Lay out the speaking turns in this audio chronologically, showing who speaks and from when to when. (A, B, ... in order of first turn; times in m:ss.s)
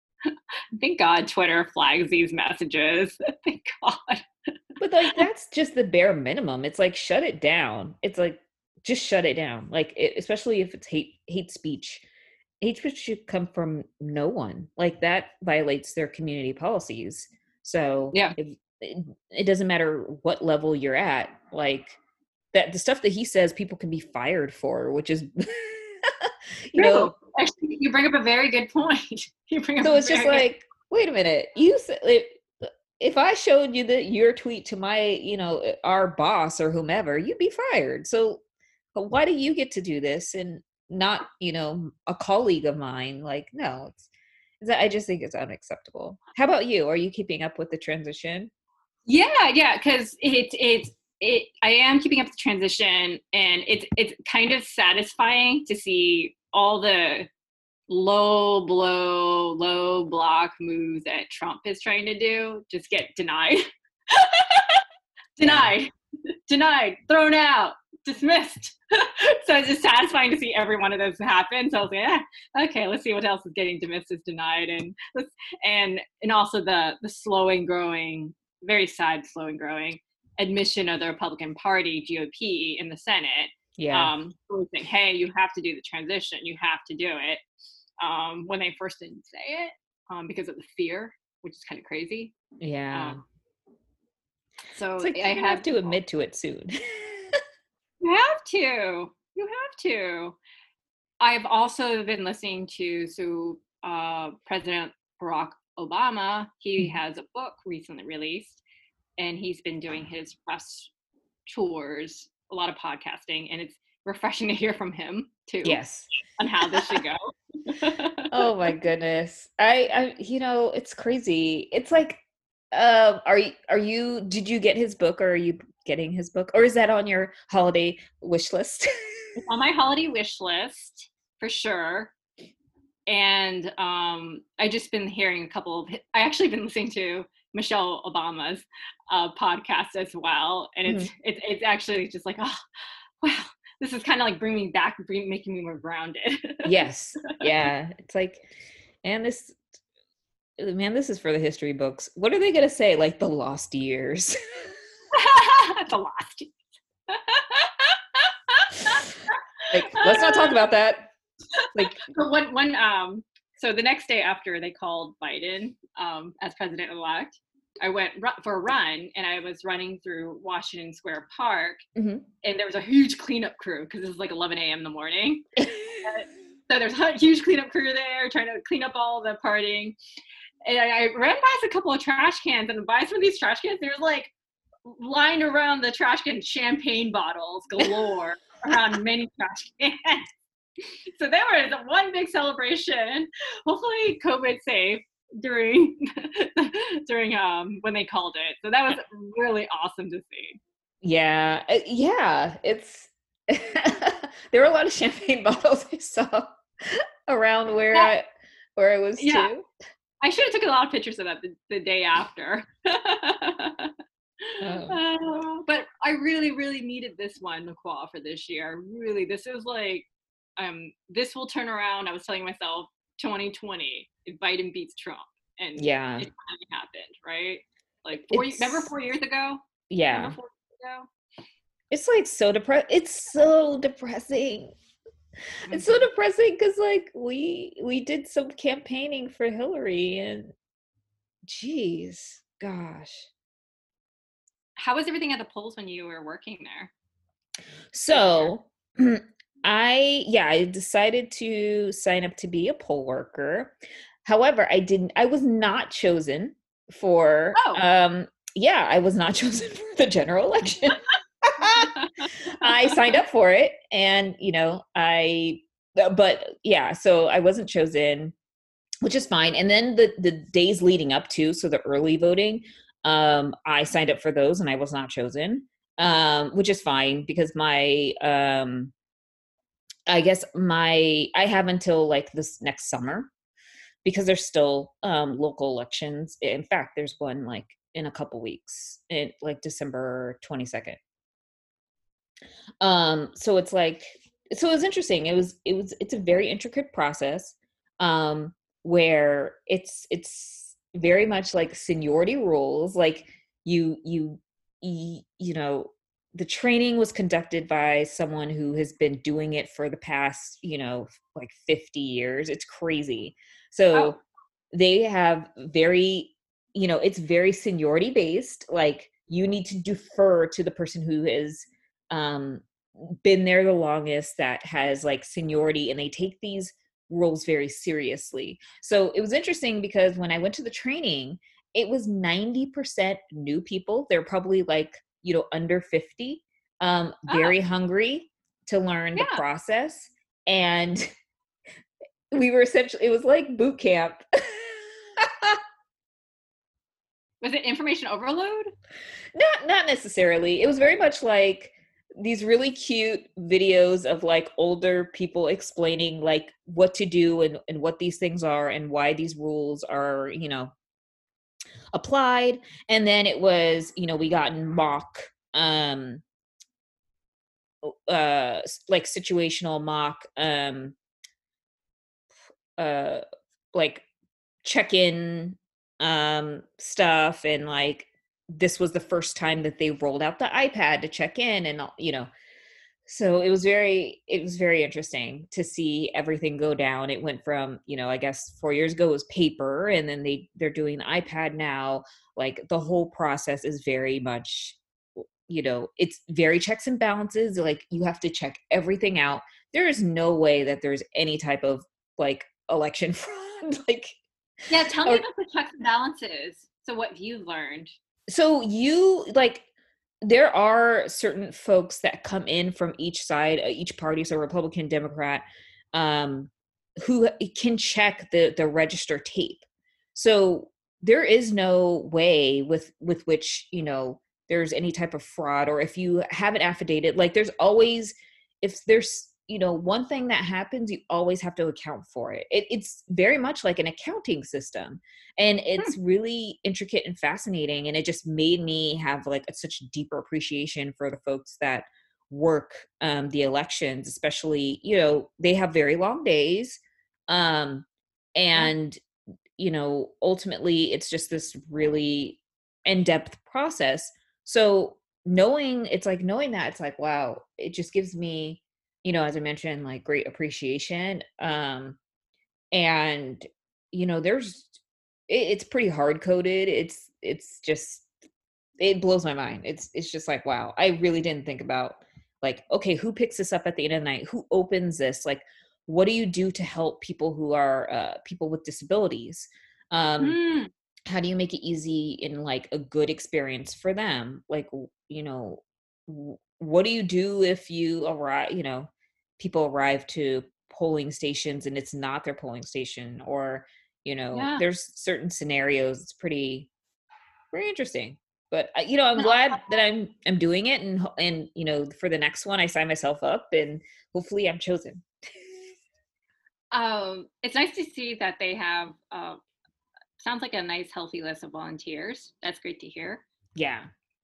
0:00.8-0:04.2 A
0:04.8-0:12.0 B
0:12.6-0:22.0 B
0:22.5-0:27.1 B
0:26.8-0:30.5 A
0:29.8-0:32.4 B
0:33.0-0:38.4 B
0:38.9-0:44.1 B
0:44.6-0:48.5 B
0:49.1-0:57.3 A
0:57.9-1:04.8 A
1:05.4-1:05.9 A
1:05.4-1:05.7 B
1:06.5-1:27.4 A
1:23.8-1:24.1 B
1:28.0-1:32.3 A
1:32.6-1:33.2 B
1:32.9-1:33.2 A
1:34.7-1:36.0 A
1:35.0-1:37.2 B
1:38.0-1:40.4 A
1:41.2-1:48.6 A
1:49.2-1:50.9 A
1:51.5-1:55.8 A
1:55.6-1:56.1 B
1:56.4-1:58.3 A
1:58.3-2:09.4 B
2:09.4-2:12.1 A
2:13.1-2:22.6 A
2:23.2-2:26.8 A
2:26.6-2:28.4 B
2:29.0-2:29.6 B
2:30.6-2:34.7 B
2:35.1-2:36.6 A
2:37.1-2:40.6 A
2:39.7-2:41.1 B
2:41.6-2:51.8 A
2:41.7-2:42.0 B
2:52.0-2:52.2 B
2:52.4-3:00.0 A
2:55.6-2:56.0 B
3:00.6-3:04.3 A
3:04.8-3:10.3 A
3:11.1-3:20.6 A
3:21.0-3:29.6 B
3:29.2-3:29.5 A
3:30.2-3:33.9 A
3:34.5-3:51.1 A
3:34.6-3:35.0 B
3:45.8-3:46.3 B
3:48.3-3:48.9 B
3:49.9-3:50.4 B
3:51.9-3:54.7 B
3:55.7-3:56.0 A
3:55.7-4:00.5 B
4:01.4-4:03.3 B
4:04.8-4:06.9 A
4:07.9-4:21.9 B
4:08.1-4:08.5 A
4:17.5-4:17.8 A
4:22.0-4:22.2 A
4:22.6-4:28.3 B
4:29.0-4:38.9 B
4:40.1-4:43.3 B
4:44.0-4:51.0 B
4:52.8-5:14.2 B
5:13.9-5:14.2 A
5:14.7-5:41.1 B
5:37.3-5:37.5 A
5:39.1-5:39.4 A
5:42.3-5:45.6 B
5:47.4-5:48.7 A
5:49.3-6:00.7 B
6:01.9-6:06.2 B
6:07.8-6:11.0 B
6:12.8-6:13.2 B
6:13.7-6:14.0 B
6:14.6-6:22.3 B
6:23.1-6:34.8 B
6:35.5-6:44.2 B
6:44.7-6:47.9 A
6:44.8-6:45.2 B
6:48.3-6:49.6 B
6:50.2-6:59.6 B
7:00.1-7:29.0 B
7:29.6-7:42.0 B
7:42.7-7:48.1 B
7:48.8-8:00.4 B
8:00.2-8:00.7 A
8:01.1-8:16.7 B
8:14.3-8:14.6 A
8:17.5-8:25.0 B
8:19.2-8:19.6 A
8:26.7-8:29.4 A
8:30.2-8:33.2 A
8:33.6-8:33.9 B